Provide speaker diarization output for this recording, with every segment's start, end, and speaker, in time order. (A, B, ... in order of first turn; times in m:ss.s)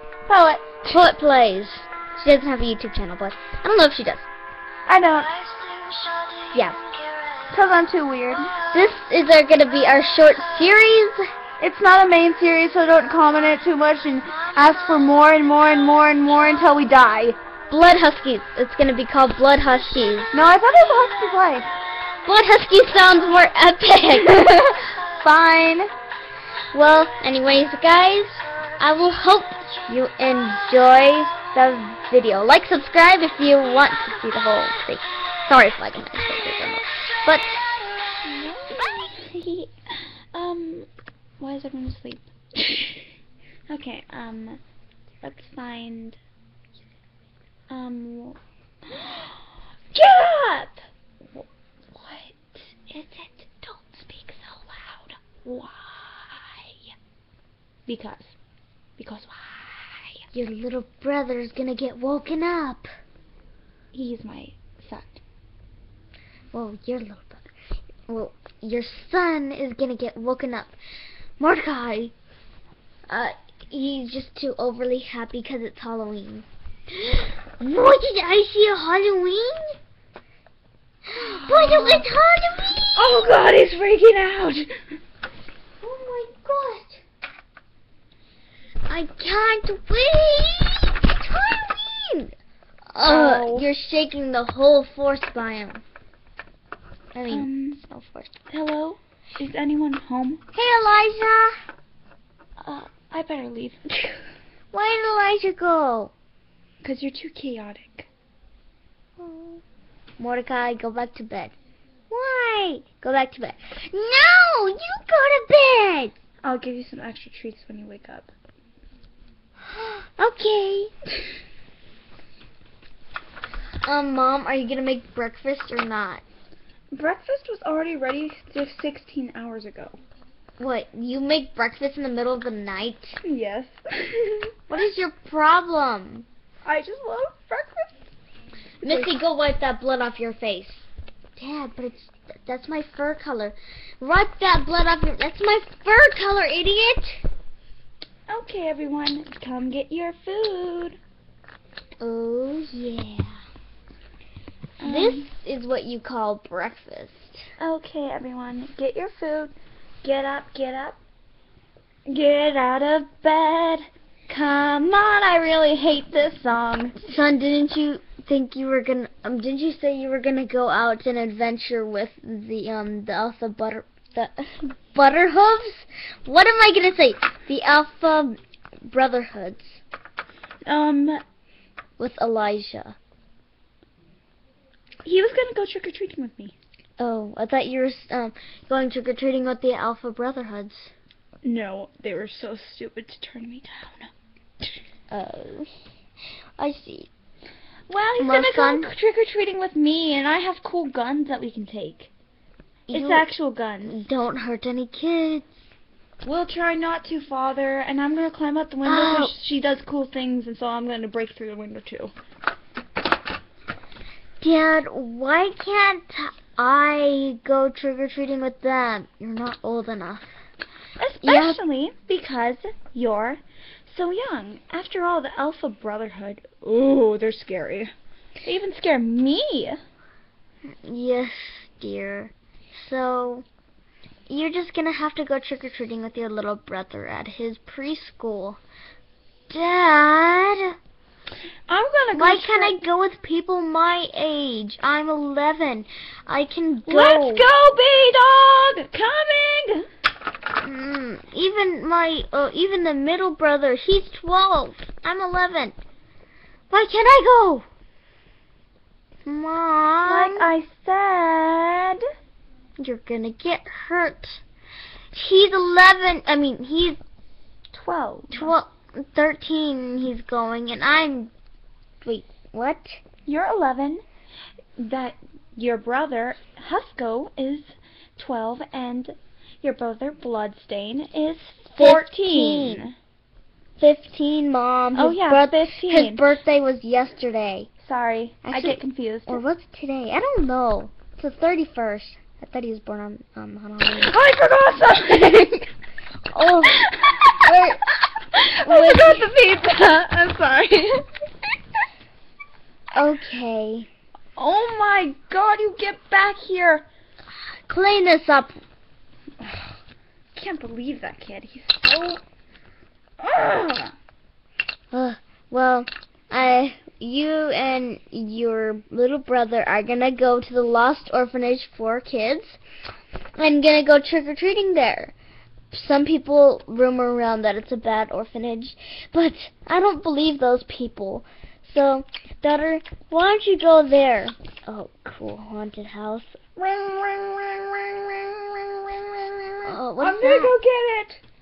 0:00.3-0:01.0 A
0:00.9-0:04.3 B
0:04.9-0:05.4 A
0:06.5-0:06.8 B
0:07.5-0:08.6 A
0:08.7-0:11.2 B
0:11.6-0:17.4 A
0:17.7-0:20.3 B
0:20.3-0:21.7 A
0:22.2-0:25.9 B
0:26.7-0:37.6 B
0:38.2-0:40.9 A
0:41.4-0:43.1 A
0:43.7-0:44.6 A
0:45.2-0:46.2 A
0:47.7-0:48.4 A
0:48.9-0:49.3 A
0:49.9-0:56.9 A
0:57.9-0:58.3 A
0:59.0-1:00.2 A
1:00.3-1:02.9 B
1:03.9-1:05.2 A
1:06.5-1:07.5 B
1:08.1-1:10.7 B
1:11.4-1:12.1 B
1:13.1-1:16.4 B
1:17.6-1:19.7 B
1:21.0-1:23.1 B
1:21.4-1:22.0 A
1:22.9-1:24.7 A
1:25.8-1:27.0 B
1:28.9-1:32.3 B
1:32.9-1:35.8 B
1:33.0-1:33.7 A
1:37.1-1:38.4 B
1:37.3-1:37.8 A
1:38.5-1:40.4 A
1:40.5-1:41.5 B
1:42.6-1:43.8 A
1:44.7-1:46.1 B
1:46.8-1:48.1 A
1:49.2-1:49.6 B
1:50.2-1:51.5 B
1:52.1-1:56.1 B
1:56.4-1:58.3 A
1:59.7-2:00.9 B
2:03.8-2:06.2 B
2:06.9-2:10.0 A
2:10.6-2:13.2 B
2:13.2-2:14.7 A
2:14.7-2:16.2 B
2:16.6-2:17.9 A
2:18.8-2:27.2 B
2:18.8-2:19.2 A
2:28.3-2:31.0 A
2:32.0-2:33.4 B
2:34.8-2:35.2 A
2:34.8-2:37.4 B
2:37.6-2:41.0 A
2:42.1-2:47.0 A
2:47.0-2:59.8 B
3:00.6-3:01.2 A
3:02.0-3:03.0 B
3:05.0-3:06.5 A
3:07.0-3:10.9 B
3:11.4-3:14.1 A
3:15.1-3:15.7 B
3:16.6-3:17.1 B
3:17.9-3:22.1 A
3:18.2-3:18.9 B
3:22.9-3:23.3 B
3:22.9-3:24.0 A
3:23.8-3:25.5 B
3:26.2-3:32.1 A
3:28.8-3:29.3 B
3:34.4-3:40.3 B
3:41.0-3:47.9 A
3:41.2-3:41.6 B
3:48.4-3:49.8 A
3:50.7-3:53.4 B
3:54.3-3:58.6 B
3:59.5-4:00.8 B
4:01.7-4:02.8 A
4:02.1-4:07.4 B
4:06.8-4:09.8 A
4:10.6-4:15.7 B
4:16.7-4:17.6 B
4:19.2-4:20.5 B
4:20.0-4:22.0 A
4:22.8-4:24.4 B
4:25.1-4:27.0 B
4:27.7-4:28.5 A
4:28.3-4:31.3 B
4:32.0-4:33.0 B
4:33.2-4:34.0 A
4:34.8-4:42.9 A
4:41.8-4:42.9 B
4:43.8-4:47.7 B
4:44.9-4:46.2 A
4:47.8-4:49.4 A
4:48.4-4:54.1 B
4:53.8-4:55.7 A
4:56.3-4:57.8 B
4:56.7-4:57.5 A
4:58.2-5:01.0 A
4:58.6-4:59.3 B
5:02.9-5:03.9 B
5:04.4-5:06.8 A
5:07.7-5:08.6 B
5:09.4-5:09.8 A
5:10.3-5:12.2 A
5:13.2-5:13.9 A
5:14.9-5:22.6 B
5:23.4-5:25.1 B
5:25.7-5:36.4 B
5:36.6-5:41.2 A
5:39.6-5:40.6 B